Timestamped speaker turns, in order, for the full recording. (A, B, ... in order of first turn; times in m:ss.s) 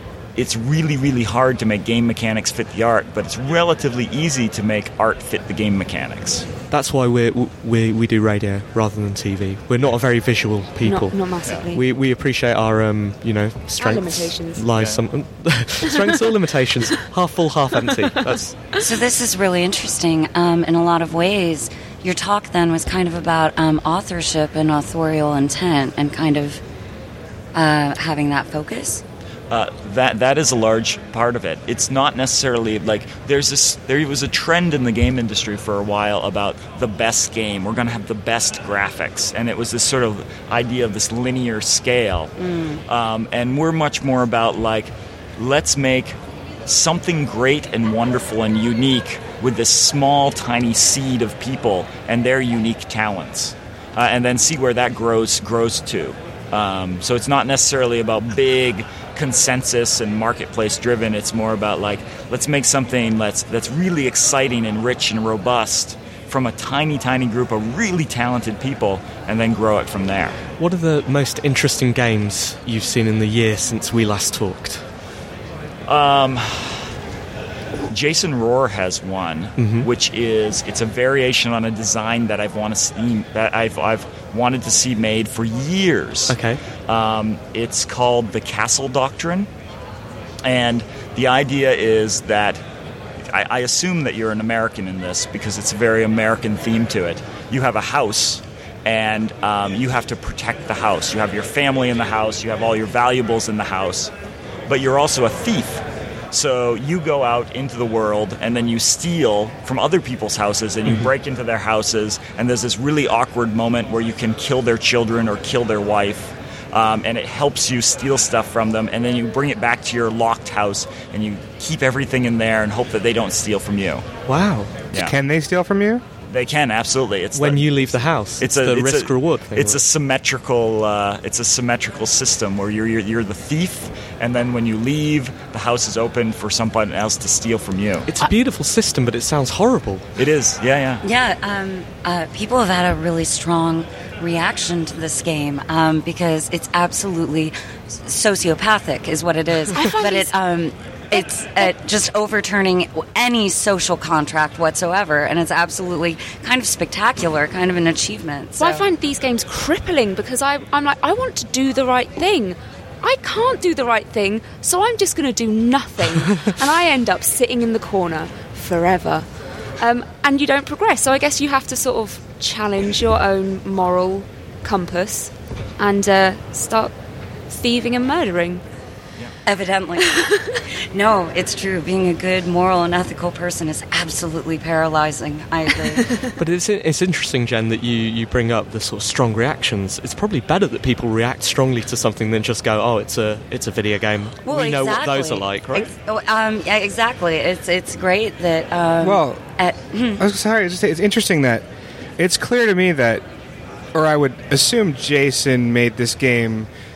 0:00.4-0:06.5 A
0:06.7-0:18.6 B
0:10.8-0:11.8 C
0:13.8-0:14.7 C
0:18.8-0:26.6 D
0:27.5-0:29.0 D
0:29.5-0:42.3 A
0:42.4-0:42.8 D
0:42.9-1:10.4 A
1:10.6-1:14.8 B
1:15.9-1:16.9 A
1:17.9-1:29.5 A
1:19.6-1:19.9 B
1:26.3-1:26.6 B
1:30.4-1:32.6 A
1:33.3-1:44.1 A
1:44.7-2:04.0 A
2:04.3-2:04.8 B
2:04.9-2:06.0 E
2:06.3-2:18.1 A
2:07.3-2:09.8 B
2:18.1-2:20.0 B
2:20.2-2:21.0 A
2:21.0-2:38.8 D
2:29.8-2:30.3 C
2:31.1-2:31.7 C
2:38.6-2:49.3 C
2:49.8-2:56.9 C
2:57.5-2:58.6 C
2:59.4-3:00.2 D
3:00.9-3:06.1 D
3:06.4-3:15.9 B
3:14.4-3:20.2 D
3:19.0-3:19.4 E
3:20.2-3:21.6 E
3:22.2-3:23.2 E
3:23.9-3:26.7 E